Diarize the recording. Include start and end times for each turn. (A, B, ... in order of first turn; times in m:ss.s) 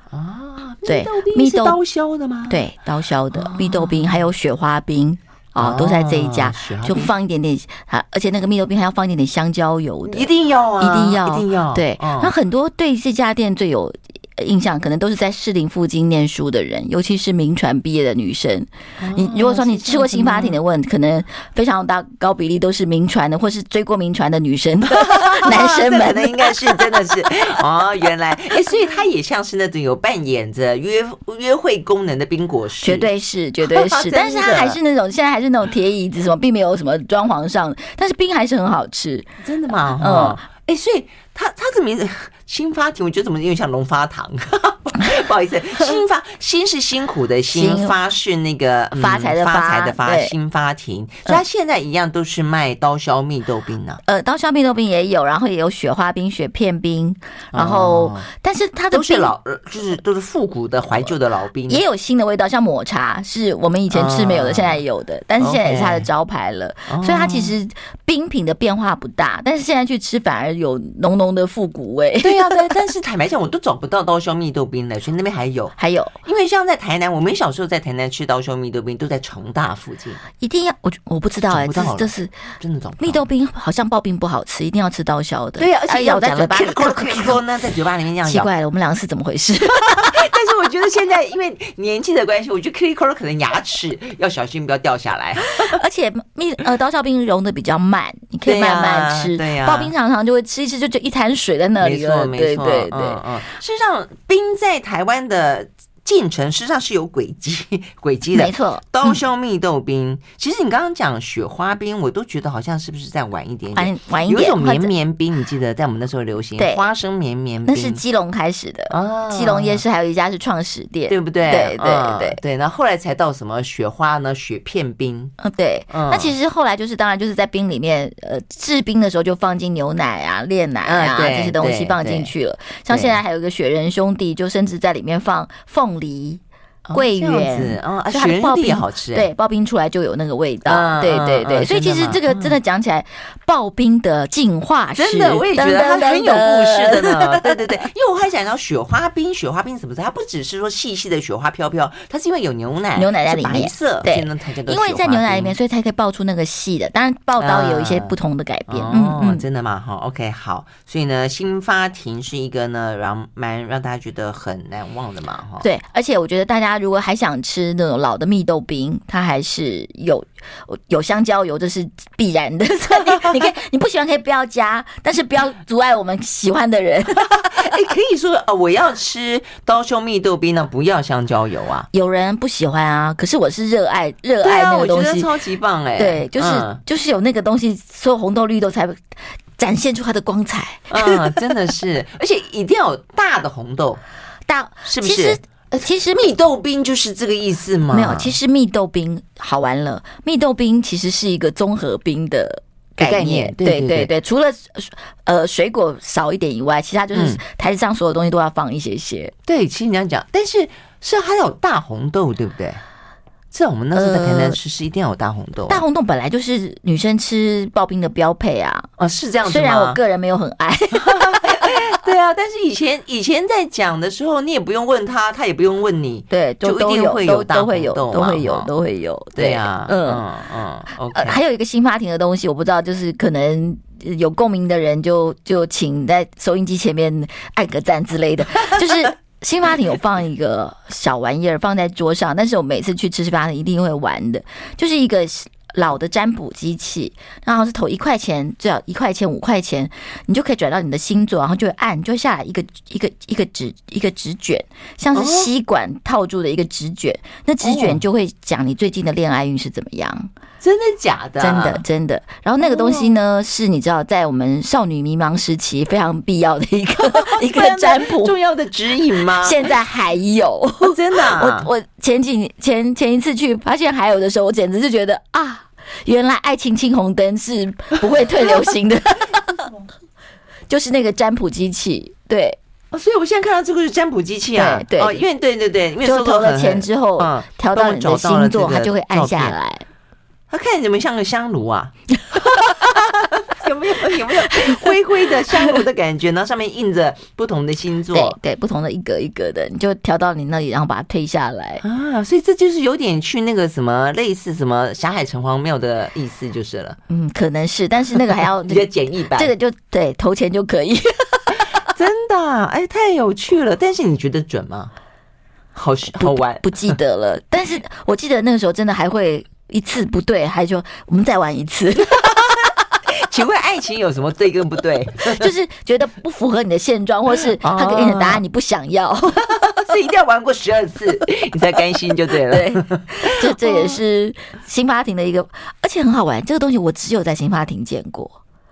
0:00.1-0:02.6 A
0:00.8-0:01.8 B
0:02.5-0:10.3 B
0:03.3-0:04.2 A
0:05.6-0:07.1 A
0:10.1-0:12.3 A
0:10.8-0:27.2 B
0:19.0-0:20.6 A
0:24.9-0:33.1 A
0:32.8-0:39.3 B
0:33.6-0:34.8 A
0:39.4-0:54.0 A
0:40.0-0:40.4 B
0:47.5-0:48.0 B
0:49.0-0:50.3 B
0:54.1-0:59.3 B
0:57.5-0:58.3 A
0:58.9-1:01.8 A
1:01.7-1:12.8 B
1:03.9-1:04.8 A
1:05.4-1:06.1 A
1:06.9-1:07.5 A
1:12.2-1:20.2 A
1:15.8-1:16.2 B
1:20.4-1:22.3 B
1:21.5-1:23.2 A
1:23.0-1:27.4 B
1:25.6-1:28.5 A
1:28.2-1:30.3 B
1:29.6-1:35.8 A
1:35.6-1:43.2 B
1:38.4-1:39.9 A
1:41.8-1:58.0 A
1:48.3-1:49.2 B
1:53.8-1:54.9 B
1:56.6-1:56.9 B
1:57.7-2:02.4 B
1:58.9-1:59.8 A
2:01.1-2:05.4 A
2:05.4-2:16.4 B
2:05.9-2:06.3 A
2:10.8-2:12.3 A
2:12.9-2:13.2 A
2:16.8-2:19.3 A
2:16.9-2:27.6 B
2:20.7-2:22.5 A
2:25.0-2:35.6 A
2:33.0-2:39.4 B
2:37.4-2:38.2 A
2:38.7-2:45.7 A
2:45.6-2:57.8 B
2:57.2-3:01.9 A
3:01.9-3:05.3 B
3:04.4-3:06.8 A
3:06.0-3:09.0 B
3:09.6-3:11.6 B
3:10.9-3:14.0 A
3:14.5-3:16.3 B
3:14.8-3:18.4 A
3:17.9-3:29.3 B
3:23.0-3:24.1 A
3:27.1-3:27.4 A
3:29.5-3:32.8 A
3:33.5-3:35.8 A
3:34.0-3:34.6 B
3:35.7-3:38.9 B
3:39.0-3:40.0 A
3:39.4-3:41.9 B
3:40.9-3:48.7 A
3:46.3-3:50.2 B
3:49.4-3:51.4 A
3:51.1-4:20.3 B
4:15.1-4:15.5 A
4:17.6-4:18.0 A
4:20.6-4:21.8 A
4:21.4-4:28.4 B
4:22.6-4:23.1 A
4:27.0-4:29.7 A
4:29.3-4:39.7 B
4:30.8-4:31.7 A
4:40.7-4:42.6 B
4:42.9-4:49.6 A
4:44.6-4:45.2 B
4:46.0-4:49.8 B
4:50.5-4:58.4 A
4:54.1-4:54.9 B
4:58.1-5:01.8 B
5:01.8-5:07.0 A
5:07.1-5:11.6 B
5:08.4-5:09.5 A
5:11.5-5:14.9 A
5:15.8-5:17.0 A
5:16.2-5:22.3 B
5:23.1-5:25.5 A
5:25.2-5:29.6 B
5:27.6-5:28.4 A
5:29.5-5:34.0 A
5:32.2-5:38.4 B